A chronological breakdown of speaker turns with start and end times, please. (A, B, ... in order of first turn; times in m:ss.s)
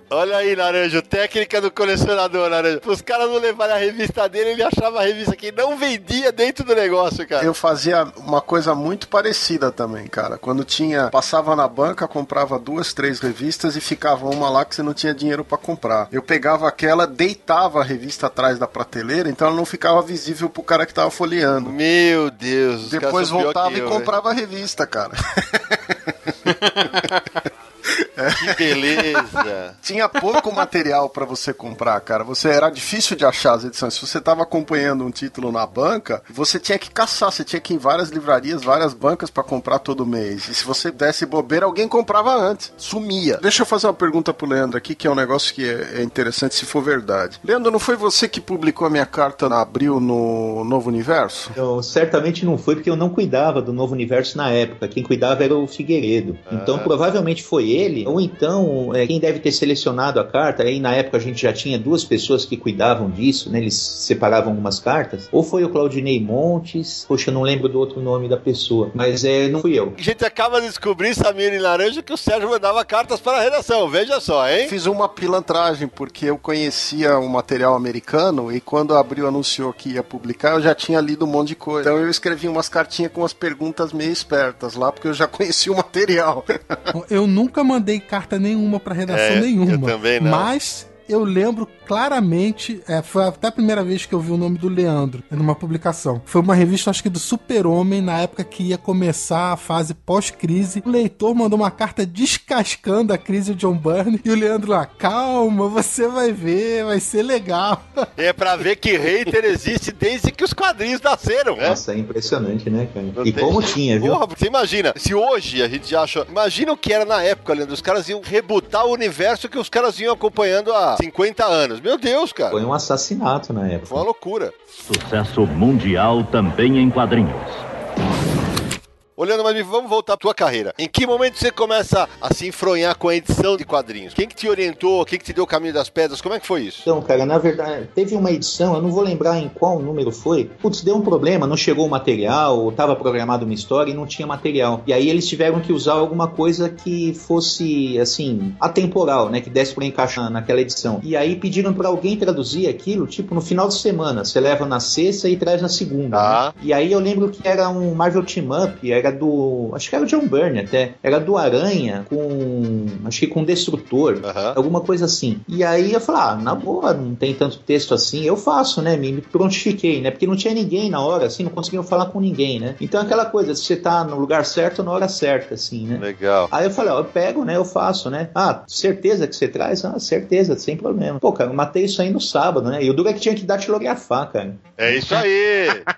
0:00.1-0:07.5 A
0:07.4-0:21.8 B
0:21.6-0:24.1 A
0:22.9-0:26.5 B
0:27.9-0:51.6 B
0:28.4-0:29.8 A
0:51.6-1:10.0 C
0:56.5-0:56.9 A
1:10.0-1:14.7 A
1:14.6-1:26.8 B
1:26.9-1:48.1 D
1:29.1-1:30.5 A
1:48.2-1:51.8 A
1:51.6-1:54.2 C
1:53.2-2:02.6 A
2:02.5-2:04.0 C
2:03.9-2:04.5 A
2:04.9-2:07.6 E
2:09.2-2:16.9 A
2:16.9-3:05.2 C
2:36.1-2:36.5 A
2:44.2-2:44.6 A
2:56.0-2:56.5 A
3:04.8-3:05.9 A